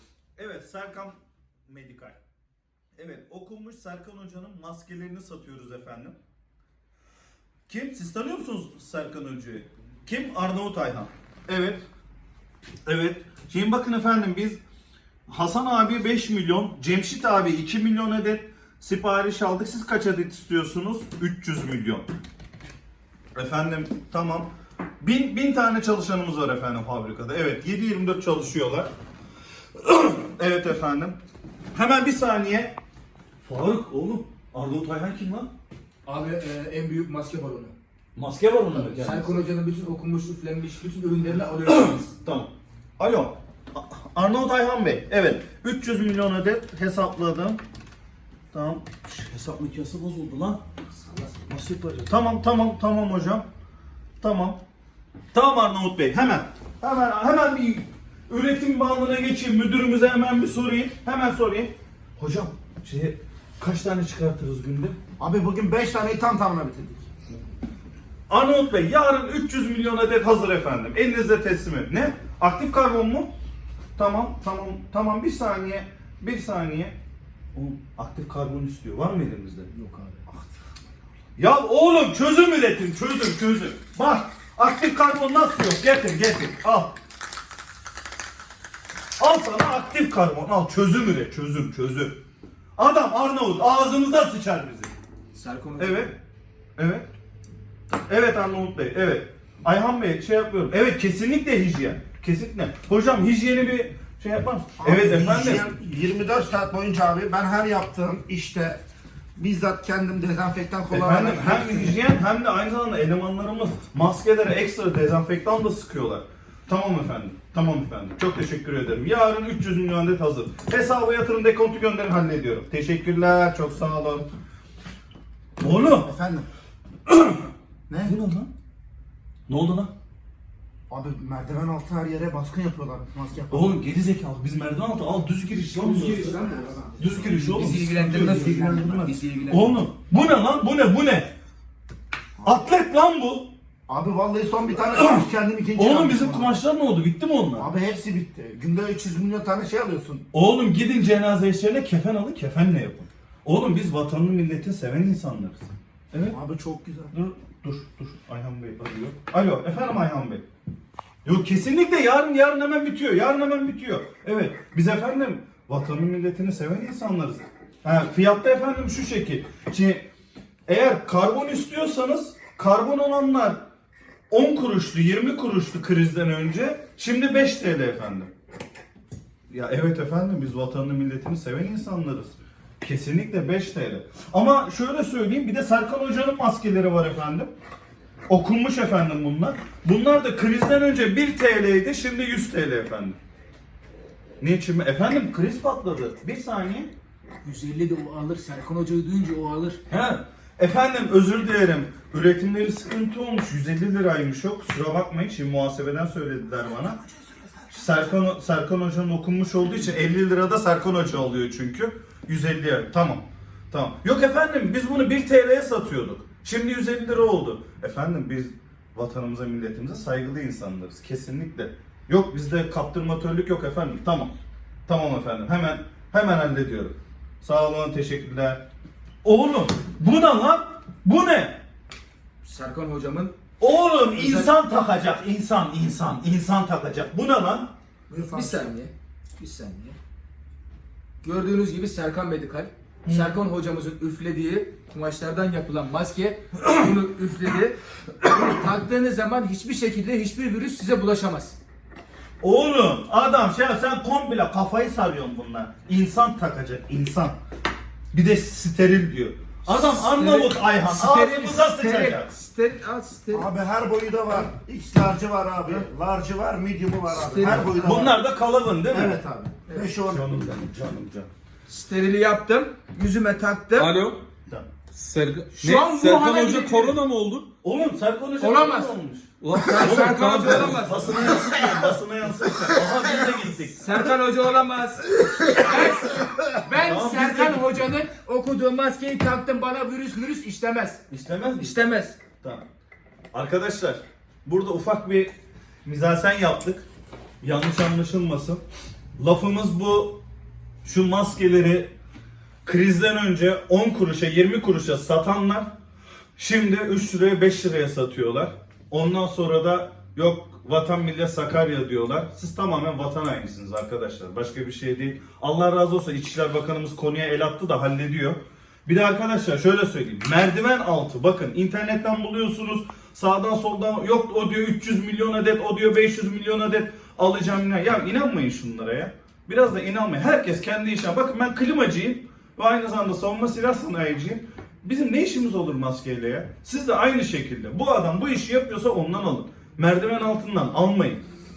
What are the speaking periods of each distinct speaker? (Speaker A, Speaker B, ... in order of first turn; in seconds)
Speaker A: 0.4-1.2, 1.7-2.2, 3.0-6.2, 7.7-11.8, 12.9-14.6, 15.3-22.1, 23.4-24.5, 25.0-28.9, 29.8-31.2, 31.7-32.8, 33.4-35.5, 38.1-39.4, 41.6-47.6, 48.5-50.6, 51.5-53.5, 54.2-54.6, 55.3-65.0, 68.3-73.3, 74.0-77.0, 77.5-79.7, 81.4-87.0, 89.2-92.2, 92.8-94.9, 95.8-96.2, 96.8-97.1, 98.1-105.7, 110.9-124.3, 125.6-126.1, 127.1-127.5, 128.0-128.5, 129.5-129.9, 133.5-136.4, 137.0-141.3, 142.4-143.5, 144.9-147.7, 150.3-156.4, 157.1-160.4, 161.2-170.1, 170.7-173.6, 174.3-178.3, 179.5-187.5, 188.3-193.2, 194.4-196.9, 199.9-207.0, 207.7-224.3, 224.9-228.6, 229.2-231.6, 233.6-237.7, 243.1-243.4, 252.4-257.4, 258.1-262.3, 267.4-269.2, 270.1-271.3, 277.6-279.3, 279.8-284.0, 286.7-287.8, 291.1-291.8, 292.4-292.7, 293.3-295.3, 295.9-296.9, 297.4-298.6, 299.2-300.2, 300.8-301.9, 302.6-305.7, 306.4-341.2
Speaker B: 36.0-37.7, 38.7-42.1, 51.1-51.3, 79.7-80.2, 95.3-96.1, 135.7-139.8, 197.4-199.8, 232.4-233.3, 234.0-234.6, 238.3-240.0, 241.2-251.6, 259.7-263.5, 267.2-267.7, 271.7-273.9, 275.6-277.0, 278.4-279.0, 279.6-281.9, 283.8-291.0, 291.6-292.2
Speaker C: 65.2-67.1, 104.8-108.8, 109.4-112.0, 126.0-126.5, 127.9-128.2, 130.9-133.8, 142.4-142.7, 143.9-146.6, 147.6-150.2, 156.3-157.1, 238.1-238.7, 263.3-268.2, 268.9-270.3
Speaker D: 273.8-274.2, 274.9-277.5, 279.4-281.1